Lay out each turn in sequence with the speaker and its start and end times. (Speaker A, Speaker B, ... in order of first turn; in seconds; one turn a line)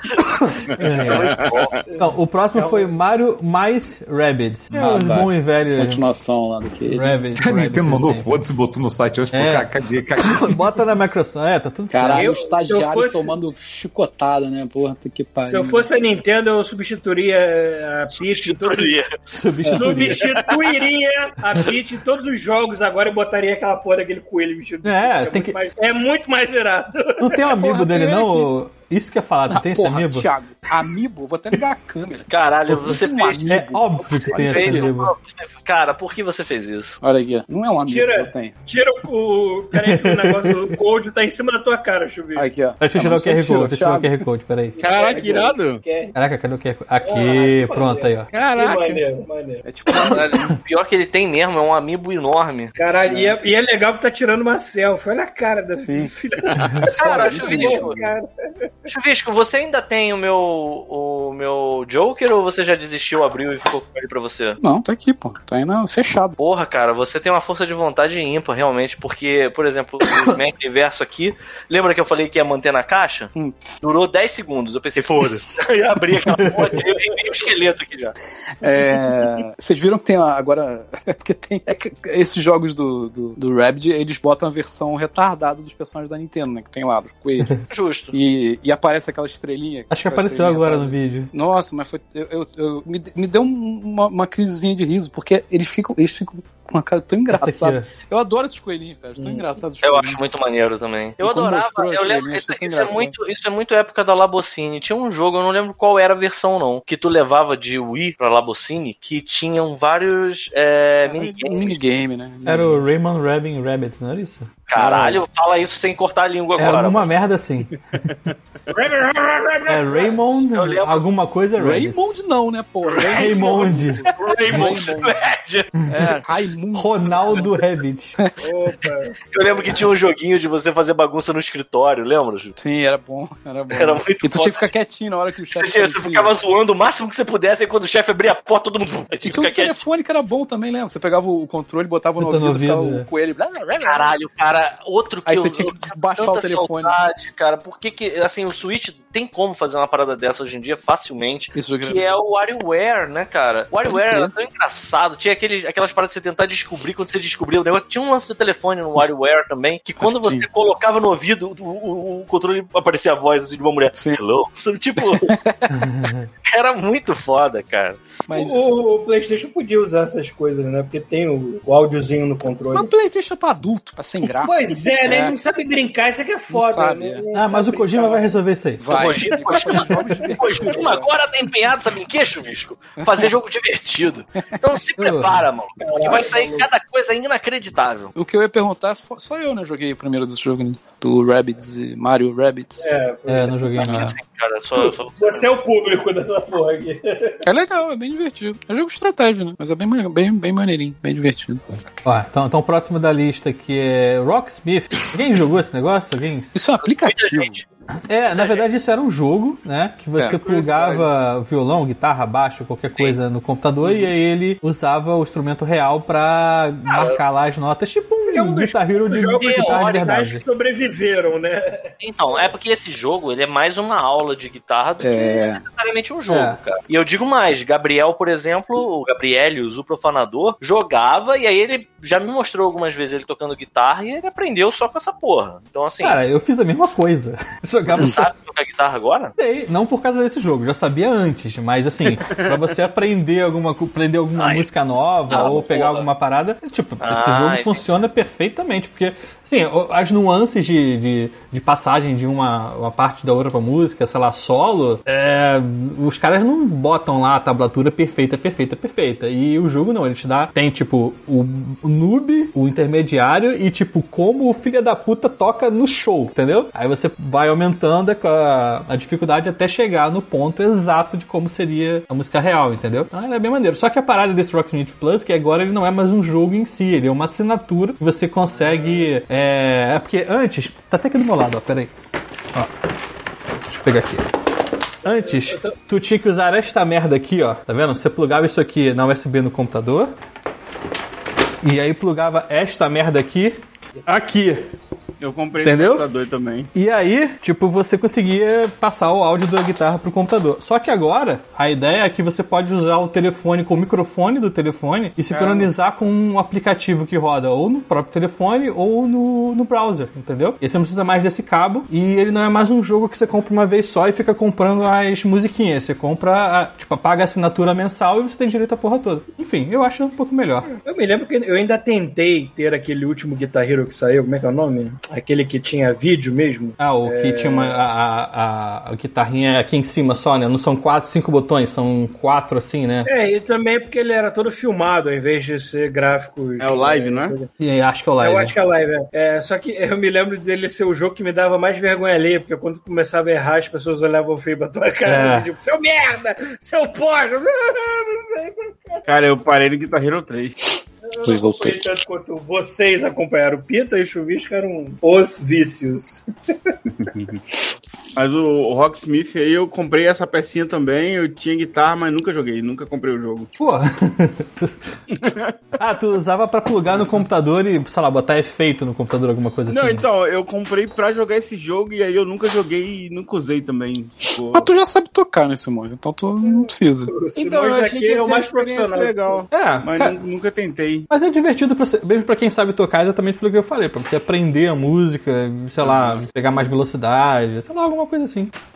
Speaker A: 0.2-1.4
Speaker B: 0.9-1.7
Speaker C: 1.3-1.7
Speaker D: 1.9-2.9
Speaker A: 2.0-6.0
Speaker E: 4.7-7.6
Speaker A: 6.9-8.3
Speaker F: 7.4-10.7
Speaker A: 9.3-12.3
Speaker E: 11.9-15.8
Speaker D: 12.1-13.3
Speaker D: 15.4-18.9
Speaker B: 18.1-19.1
Speaker A: 19.3-20.2
Speaker E: 19.6-19.9
Speaker D: 19.7-27.2
Speaker A: 24.8-25.5
Speaker A: 27.2-30.3
Speaker E: 27.5-28.5
Speaker E: 29.5-34.9
Speaker B: 32.3-33.4
Speaker A: 33.5-35.1
Speaker B: 34.2-37.0
Speaker E: 37.0-38.5
Speaker D: 37.9-42.5
Speaker A: 39.7-40.7
Speaker E: 42.4-44.2
Speaker A: 42.8-44.8
Speaker D: 44.8-46.1
Speaker C: 44.8-45.8
Speaker A: 46.1-48.3
Speaker D: 47.0-49.6
Speaker C: 48.3-49.0
Speaker E: 49.6-50.5
Speaker B: 49.9-52.7
Speaker D: 52.8-58.7
Speaker E: 53.0-53.4
Speaker E: 55.8-56.1
Speaker A: 56.6-56.9
Speaker E: 56.7-58.1
Speaker B: 56.8-58.0
Speaker B: 58.9-64.6
Speaker E: 64.6-66.4
Speaker B: 66.4-78.1
Speaker A: 70.0-70.3
Speaker E: 73.3-73.6
Speaker E: 78.6-100.2
Speaker B: 87.7-88.1
Speaker A: 89.9-91.3
Speaker A: 97.3-97.9
Speaker B: 99.8-111.8
Speaker E: 101.2-103.1
Speaker E: 111.0-112.8
Speaker A: 112.5-114.5
Speaker B: 114.7-117.2
Speaker E: 114.7-115.2
Speaker A: 116.6-117.7
Speaker D: 118.7-120.2
Speaker A: 119.7-122.2
Speaker B: 120.5-121.0
Speaker E: 121.6-125.2
Speaker B: 122.8-123.4
Speaker A: 123.1-124.7
Speaker B: 124.2-125.7
Speaker A: 125.8-126.1
Speaker E: 125.9-127.6
Speaker A: 126.7-128.2
Speaker D: 128.4-129.6
Speaker B: 129.3-132.5
Speaker E: 132.6-136.3
Speaker B: 133.7-134.7
Speaker B: 135.5-139.8
Speaker E: 139.2-144.2
Speaker A: 142.2-143.1
Speaker B: 143.8-165.4
Speaker E: 145.2-147.0
Speaker E: 151.5-152.1
Speaker E: 153.8-154.3
Speaker E: 160.0-160.5
Speaker E: 163.9-164.2
Speaker E: 165.0-165.9
Speaker A: 165.7-166.3
Speaker B: 166.4-168.0
Speaker E: 168.3-168.7
Speaker D: 168.3-172.9
Speaker E: 172.7-175.4
Speaker D: 174.4-178.3
Speaker E: 176.5-177.2
Speaker A: 177.3-178.9
Speaker E: 178.8-181.1
Speaker B: 178.9-188.1
Speaker E: 183.0-183.2
Speaker A: 185.0-185.4
Speaker D: 185.8-186.7
Speaker E: 188.1-192.9
Speaker D: 192.8-193.9
Speaker A: 193.3-194.1
Speaker E: 193.8-194.2
Speaker B: 193.9-195.5
Speaker D: 194.7-197.4
Speaker E: 197.4-201.6
Speaker A: 202.0-206.5
Speaker E: 206.5-207.6
Speaker B: 206.8-207.6
Speaker A: 208.1-220.4
Speaker B: 208.3-208.6
Speaker C: 210.2-211.1
Speaker E: 213.8-214.1
Speaker D: 218.3-222.5
Speaker B: 219.4-220.0
Speaker B: 222.0-236.2
Speaker E: 225.0-225.6
Speaker A: 226.3-226.6
Speaker A: 236.0-238.2
Speaker B: 237.9-239.3
Speaker A: 239.4-281.9
Speaker C: 242.3-242.5
Speaker B: 244.4-244.6
Speaker B: 245.3-246.1
Speaker B: 247.0-247.8
Speaker A: 283.7-284.3
Speaker A: 285.0-290.1
Speaker D: 285.0-285.7
Speaker A: 291.6-294.7
Speaker C: 295.2-296.7
Speaker A: 295.6-296.0
Speaker A: 296.7-320.7
Speaker C: 305.3-305.7
Speaker D: 320.8-327.8
Speaker A: 326.8-333.1
Speaker D: 333.1-337.5
Speaker C: 336.6-337.3
Speaker A: 337.6-338.5
Speaker D: 338.2-349.1
Speaker A: 345.1-345.5
Speaker C: 349.1-350.6
Speaker D: 351.0-356.7
Speaker E: 351.2-351.9
Speaker C: 357.0-357.4
Speaker C: 358.1-363.5
Speaker A: 363.6-370.0
Speaker C: 365.1-365.6
Speaker C: 367.0-367.2
Speaker C: 369.7-374.7
Speaker E: 374.5-377.1
Speaker D: 377.1-379.4
Speaker C: 377.4-381.1
Speaker A: 379.5-380.1
Speaker A: 381.1-388.5
Speaker C: 385.8-386.2